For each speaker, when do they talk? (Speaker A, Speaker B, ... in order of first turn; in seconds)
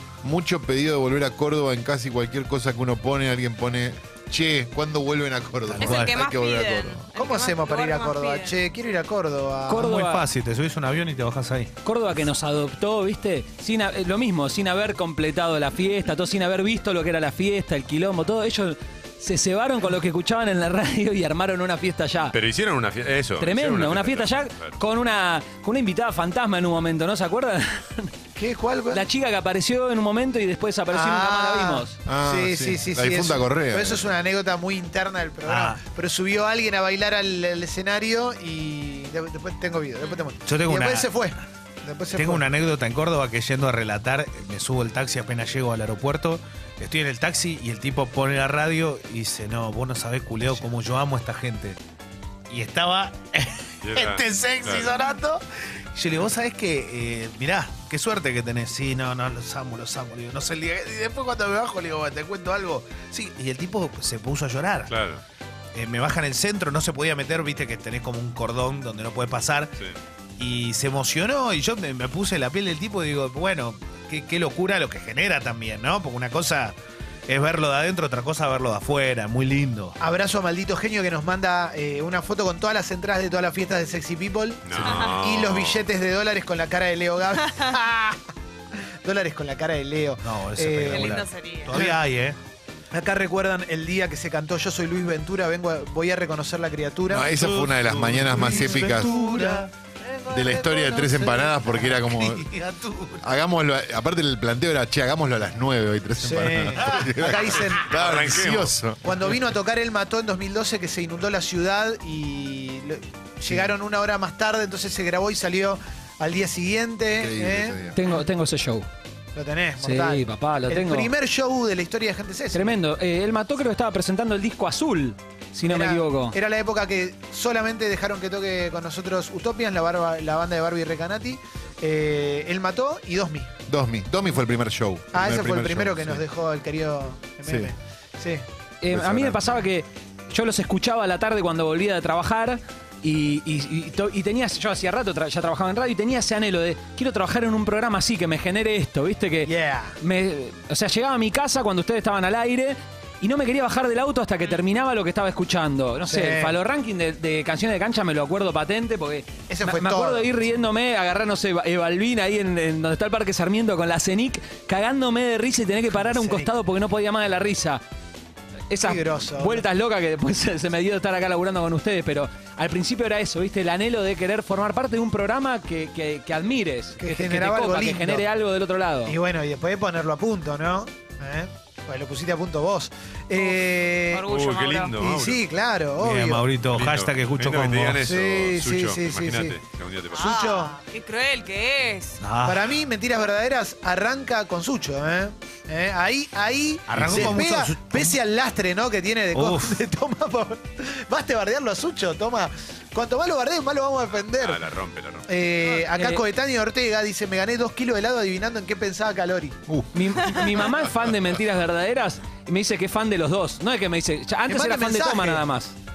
Speaker A: 0.2-7.0, 32.1-34.1, 97.1-99.2, 100.3-102.5, 103.2-109.4, 117.1-118.0, 133.7-136.2, 137.4-137.7, 138.9-139.7, 197.0-197.3, 209.7-210.0
Speaker B: 5.7-6.2, 9.8-11.7, 35.5-35.8, 40.4-41.1, 42.1-51.8, 52.5-55.4, 56.0-65.0, 65.7-69.7, 70.4-76.8, 77.3-80.0, 84.8-85.1, 90.2-92.4, 97.2-103.2, 186.0-188.0, 192.2-192.7, 196.9-198.2, 199.3-199.8
Speaker C: 5.8-8.6, 84.8-85.2, 90.9-91.7, 183.3-185.0, 190.1-192.2
Speaker D: 7.2-9.9, 28.4-29.0, 30.9-42.5, 50.5-50.8, 80.0-88.2, 88.8-92.0, 92.9-97.3, 98.3-99.6, 106.2-107.9, 109.0-117.8, 119.3-122.8, 125.7-133.5, 135.1-138.4, 149.4-150.0, 156.1-156.6, 159.5-160.3, 166.0-166.5, 168.8-169.7, 177.0-178.2, 179.1-184.3, 185.0-186.5, 188.0-189.6, 190.1-190.8, 192.4-204.6, 205.3-209.6, 214.5-215.4
Speaker E: 9.7-10.2, 11.8-22.4, 23.4-28.1, 28.9-32.0, 117.9-118.9, 119.8-121.1, 122.5-126.4, 138.8-167.8, 168.7-179.2, 205.7-206.2, 209.9-215.8
Speaker F: 22.3-24.8, 53.8-54.9, 64.9-65.2, 84.7-85.9, 107.8-108.8, 184.2-185.4, 186.7-190.2, 204.4-205.3